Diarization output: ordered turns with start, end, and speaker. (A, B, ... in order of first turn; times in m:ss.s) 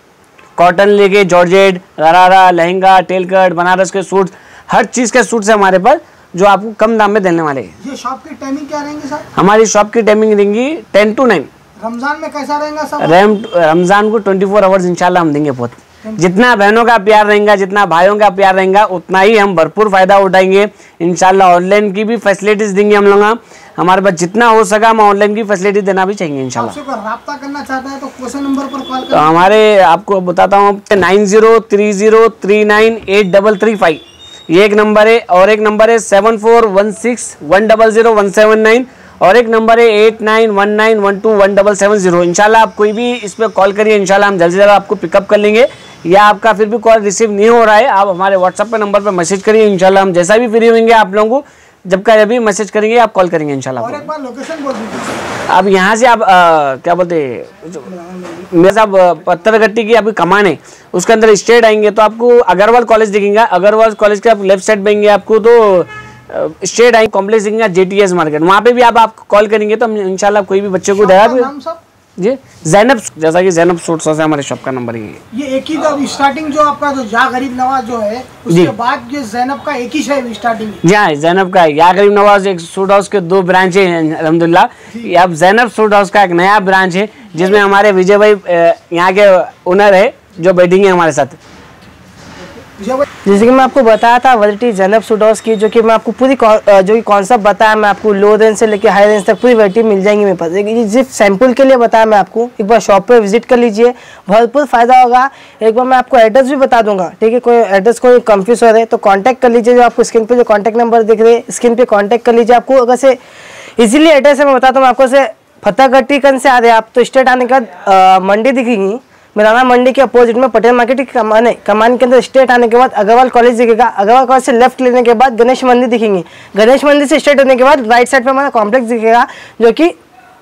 0:00.6-0:07.7 A
0:07.8-0:09.2 B
0:09.4-0:11.5 A
0:11.8-0:13.2 B
0:13.0-0:26.8 A
0:26.6-0:29.5 B
0:29.1-0:54.1 A
0:53.8-0:55.2 B
0:55.5-0:57.9 A
0:58.5-1:11.5 A
1:10.9-1:11.8 B
1:12.2-1:15.2 A
1:15.3-1:20.8 B
1:20.8-1:31.4 A
1:32.8-1:33.0 B
1:33.2-1:53.2 C
1:53.8-2:10.0 C